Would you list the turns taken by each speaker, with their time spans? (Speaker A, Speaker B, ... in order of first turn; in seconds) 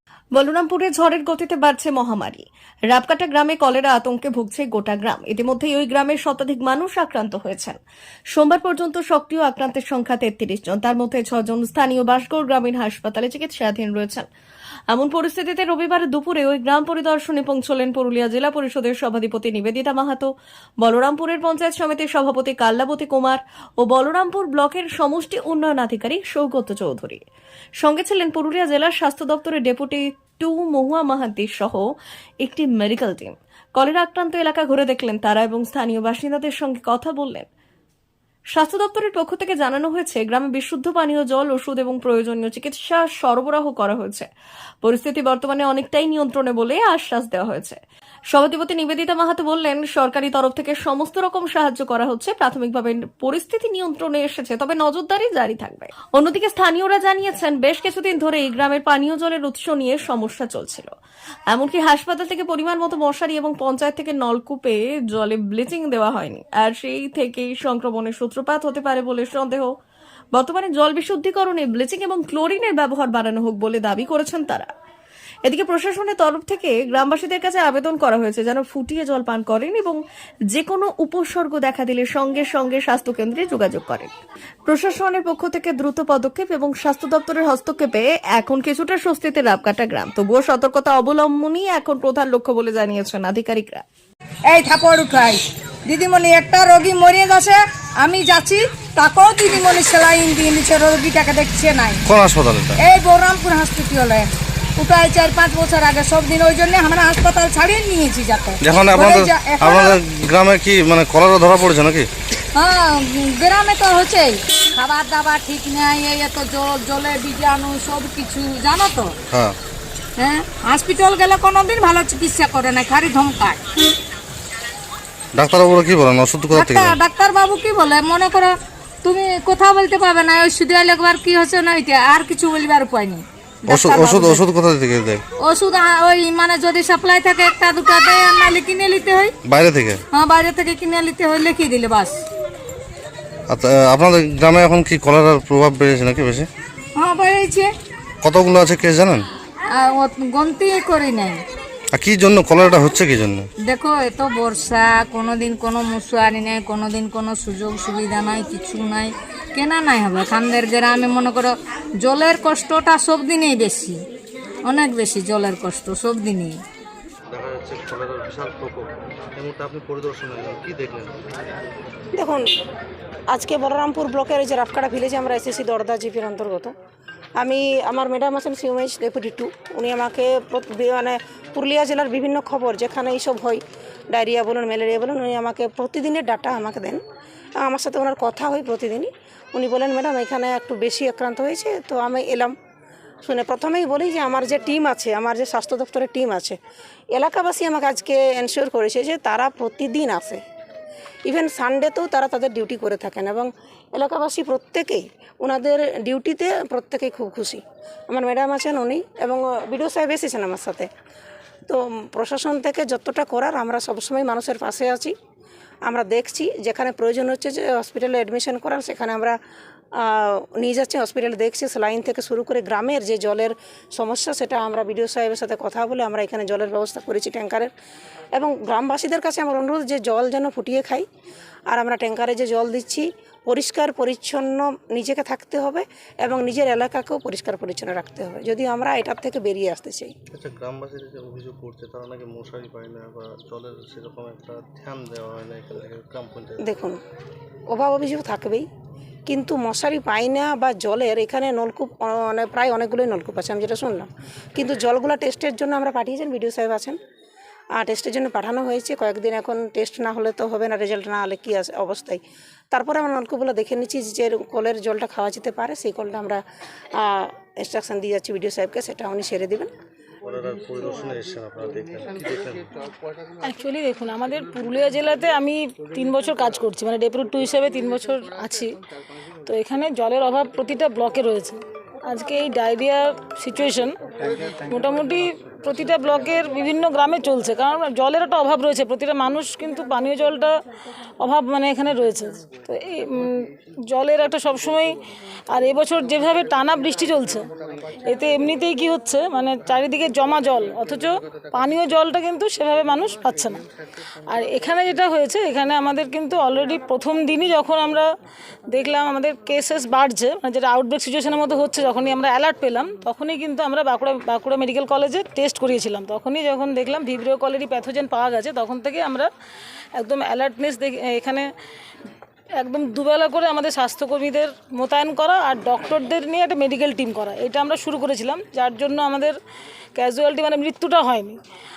Speaker A: 0.3-7.8, 8.3-14.3, 14.9-27.2, 27.8-31.8, 32.4-37.5, 38.5-44.3, 44.8-47.8, 48.3-60.9, 61.5-69.7, 70.3-74.7, 75.4-80.0, 80.5-84.1, 84.7-93.8
Speaker B: 94.5-102.0, 102.8-110.0, 112.5-119.1, 120.2-123.6, 126.5-134.4, 135.4-139.3, 140.1-142.2, 146.9-147.7, 149.7-151.4, 153.7-163.9, 164.7-166.6
Speaker C: 102.0-102.8, 108.6-112.1, 119.3-119.6, 125.3-127.0, 133.7-135.2, 139.4-140.0, 143.5-146.5, 148.2-149.3, 151.9-153.5, 167.3-171.3, 240.3-246.7, 270.2-272.7
Speaker D: 172.1-172.4, 173.3-176.7, 177.4-183.6, 184.1-187.0, 187.6-192.5, 193.2-196.6, 197.1-200.4, 201.3-210.9, 211.7-215.1, 215.9-219.4, 220.0-227.7, 228.3-231.1, 231.7-240.1, 246.6-247.0, 247.7-248.7, 249.3-257.0, 257.8-262.2, 262.7-266.4, 267.0-269.7
Speaker E: 273.4-278.7, 279.4-284.0, 284.6-290.5, 291.2-295.0, 295.5-297.5, 298.0-303.6, 304.3-308.1, 308.7-319.3, 320.0-321.5, 322.6-329.4, 329.9-331.4